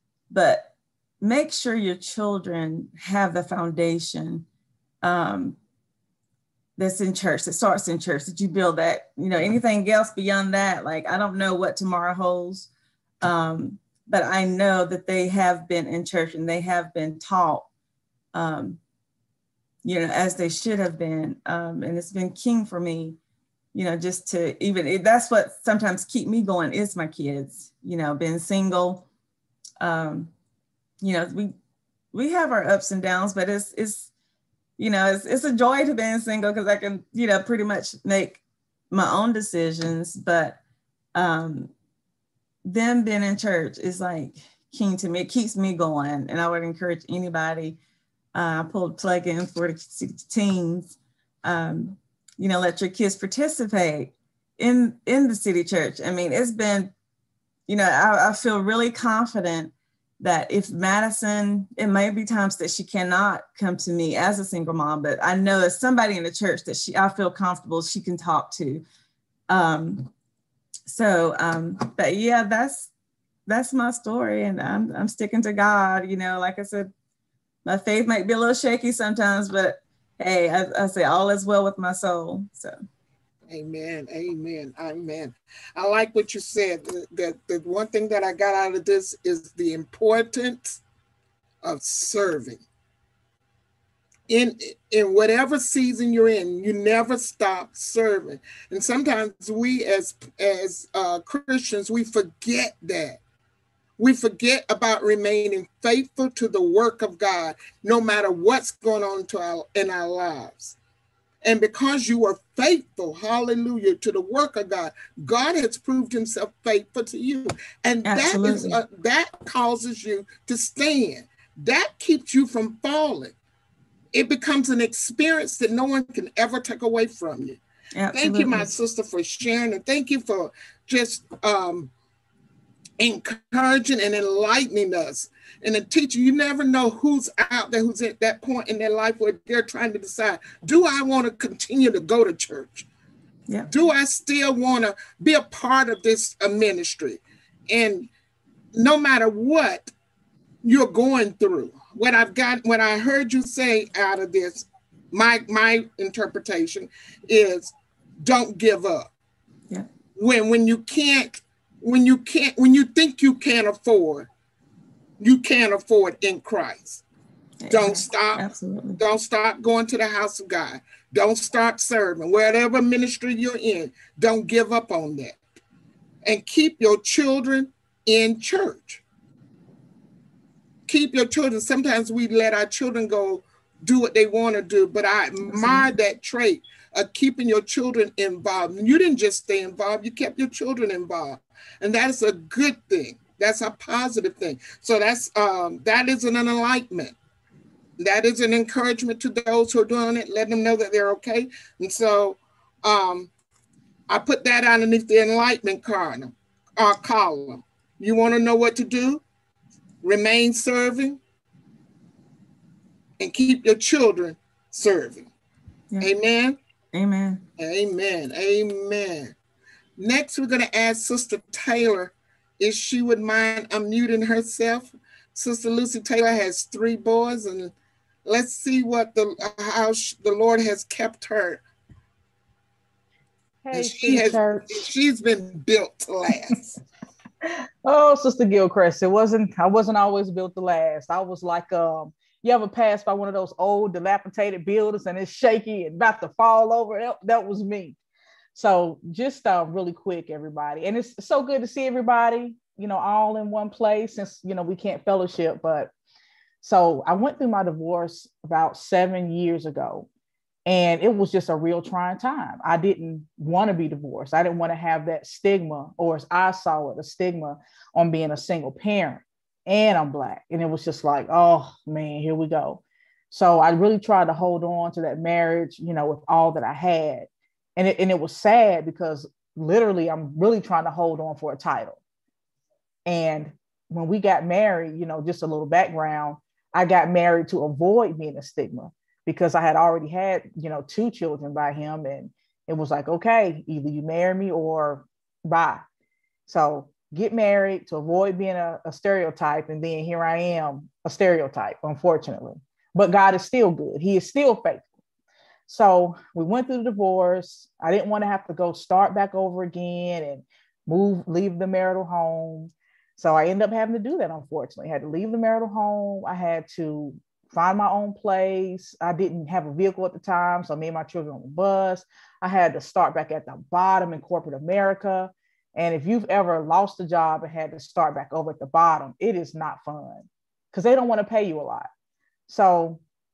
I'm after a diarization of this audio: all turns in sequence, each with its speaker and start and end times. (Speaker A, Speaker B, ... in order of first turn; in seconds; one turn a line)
Speaker A: 0.3-4.5
Speaker A: 5.0-5.6
Speaker A: 6.8-12.7
Speaker A: 13.2-17.7
Speaker A: 18.3-18.8
Speaker A: 19.8-23.2
Speaker A: 23.7-29.1
Speaker A: 29.8-30.3
Speaker A: 31.0-31.5
Speaker A: 32.1-34.1
Speaker A: 34.8-40.6
Speaker A: 41.1-41.7
Speaker A: 42.6-47.8
Speaker A: 48.4-56.9
Speaker A: 57.7-68.8
Speaker A: 69.5-70.1
Speaker A: 70.9-72.9
Speaker A: 73.5-76.9
Speaker A: 77.7-82.8
Speaker B: 83.5-90.8
Speaker B: 91.6-92.6
Speaker B: 94.3-103.2
Speaker B: 104.0-110.8
Speaker B: 111.4-123.3
Speaker A: 118.0-118.8
Speaker B: 124.1-127.6
Speaker A: 128.0-128.7
Speaker B: 128.1-131.9
Speaker B: 133.0-142.9
Speaker B: 143.7-148.1
Speaker B: 148.7-149.9
Speaker B: 150.6-159.1
Speaker B: 160.2-164.3
Speaker B: 165.2-167.0
Speaker A: 167.6-169.0
Speaker B: 167.7-168.4
Speaker B: 169.0-175.4
Speaker B: 176.2-179.0
Speaker B: 180.9-197.2
Speaker A: 185.5-185.9
Speaker B: 198.0-203.3
Speaker B: 204.1-209.2
Speaker B: 210.0-211.2
Speaker B: 213.2-215.3
Speaker B: 216.0-216.6
Speaker A: 216.9-217.4
Speaker B: 217.6-219.3
Speaker B: 220.0-227.7
Speaker B: 228.2-231.6
Speaker C: 233.6-234.9
Speaker B: 233.7-236.8
Speaker C: 237.8-248.0
Speaker C: 248.6-255.9
Speaker C: 256.6-260.1
Speaker C: 260.7-282.0
Speaker C: 283.1-295.8
Speaker C: 296.5-304.8
Speaker C: 305.7-331.9
Speaker C: 332.5-333.0